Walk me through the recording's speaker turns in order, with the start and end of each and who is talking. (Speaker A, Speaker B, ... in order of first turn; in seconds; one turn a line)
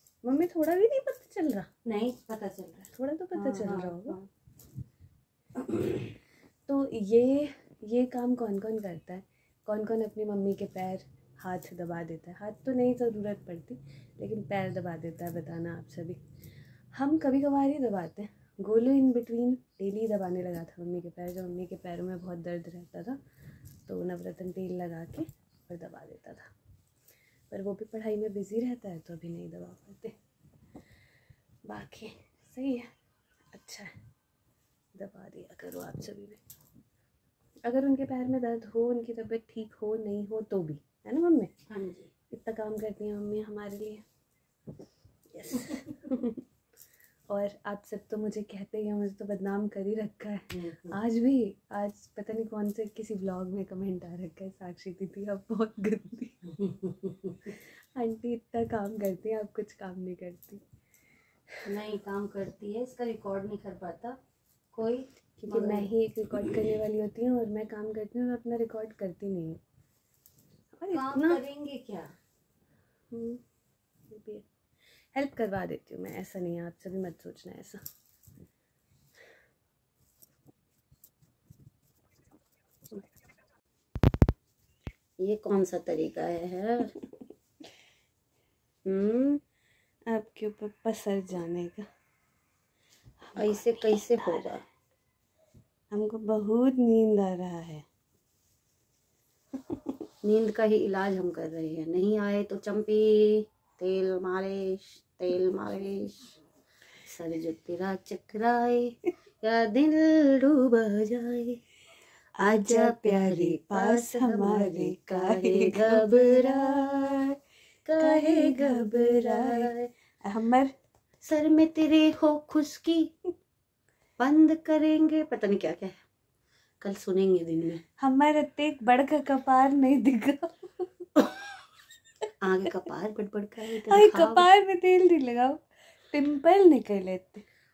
Speaker A: 0.2-1.7
Speaker B: 1.9-4.3
Speaker A: 2.9-4.2
Speaker B: 5.6-6.0
Speaker A: 6.7-16.2
Speaker A: 16.9-23.2
Speaker A: 23.9-26.5
Speaker A: 27.5-30.2
Speaker A: 31.7-32.9
Speaker A: 33.5-33.9
Speaker A: 35.0-36.4
Speaker A: 37.6-41.5
Speaker B: 41.7-42.1
Speaker A: 42.3-44.0
Speaker A: 45.3-46.4
Speaker A: 47.3-56.5
Speaker B: 50.5-51.0
Speaker B: 56.6-57.5
Speaker A: 57.5-60.6
Speaker B: 61.7-64.2
Speaker B: 64.7-65.9
Speaker A: 65.4-69.6
Speaker A: 70.7-71.4
Speaker B: 70.9-72.1
Speaker A: 73.1-73.4
Speaker A: 74.1-74.5
Speaker A: 75.1-77.8
Speaker B: 85.2-86.9
Speaker B: 88.8-89.4
Speaker A: 90.1-91.9
Speaker A: 93.2-94.6
Speaker B: 93.3-94.6
Speaker A: 95.9-97.8
Speaker B: 100.2-106.4
Speaker B: 107.0-111.6
Speaker B: 112.4-117.3
Speaker A: 112.4-117.3
Speaker B: 117.9-119.9
Speaker A: 118.0-119.7
Speaker A: 120.2-120.7
Speaker B: 121.2-123.1
Speaker B: 124.2-126.0
Speaker B: 126.8-127.8
Speaker A: 128.0-131.1
Speaker B: 132.4-134.5
Speaker A: 133.9-137.4